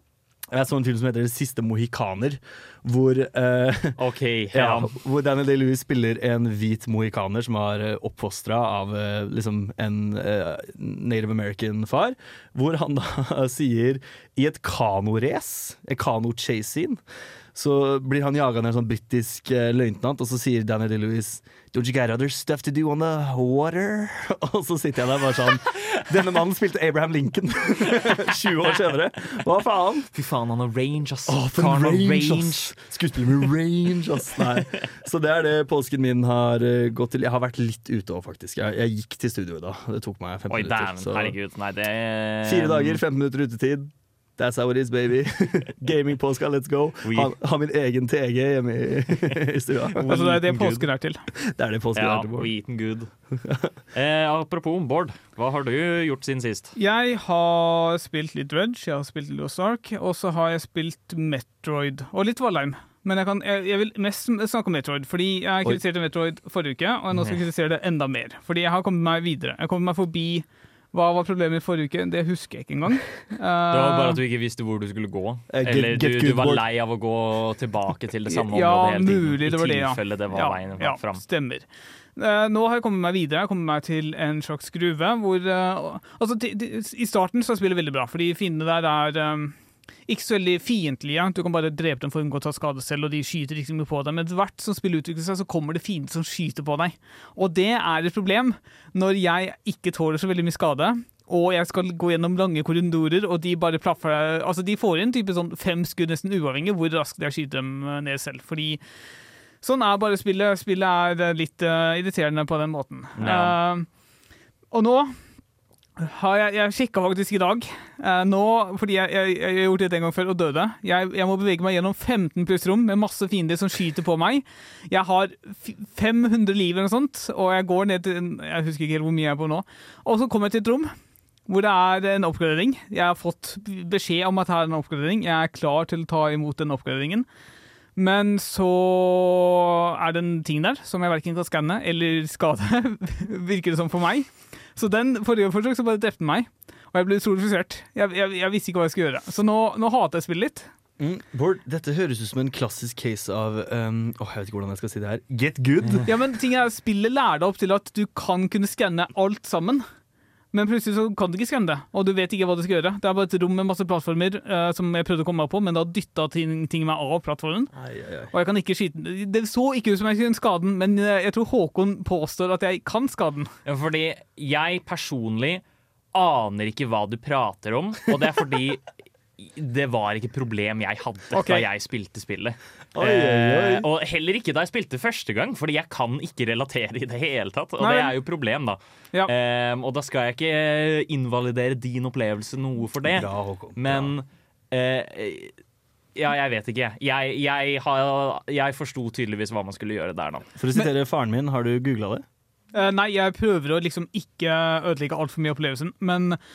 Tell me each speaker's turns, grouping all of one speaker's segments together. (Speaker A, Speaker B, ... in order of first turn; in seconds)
Speaker A: 0.5-4.0, 4.5-17.0, 17.5-30.1, 31.3-41.4, 42.5-50.6, 51.4-52.5, 53.3-53.7, 75.5-76.6, 151.0-156.1, 167.8-168.3, 182.9-183.9, 193.1-194.1, 200.6-202.2
Speaker B: 4.0-4.9, 30.1-32.7, 40.5-43.0, 47.0-47.3, 50.0-50.8, 52.0-53.1, 53.9-56.7, 73.7-81.2, 113.2-113.6, 173.6-175.6, 176.1-178.8, 179.4-195.6, 196.1-200.5
Speaker C: 50.1-51.2, 56.8-74.2, 78.3-89.5, 90.1-108.8, 109.6-113.9, 114.7-115.2, 116.0-130.9, 131.5-137.3, 138.0-150.7, 156.1-159.8, 160.5-167.7, 168.3-173.5, 181.3-181.6, 187.8-188.2, 202.7-206.4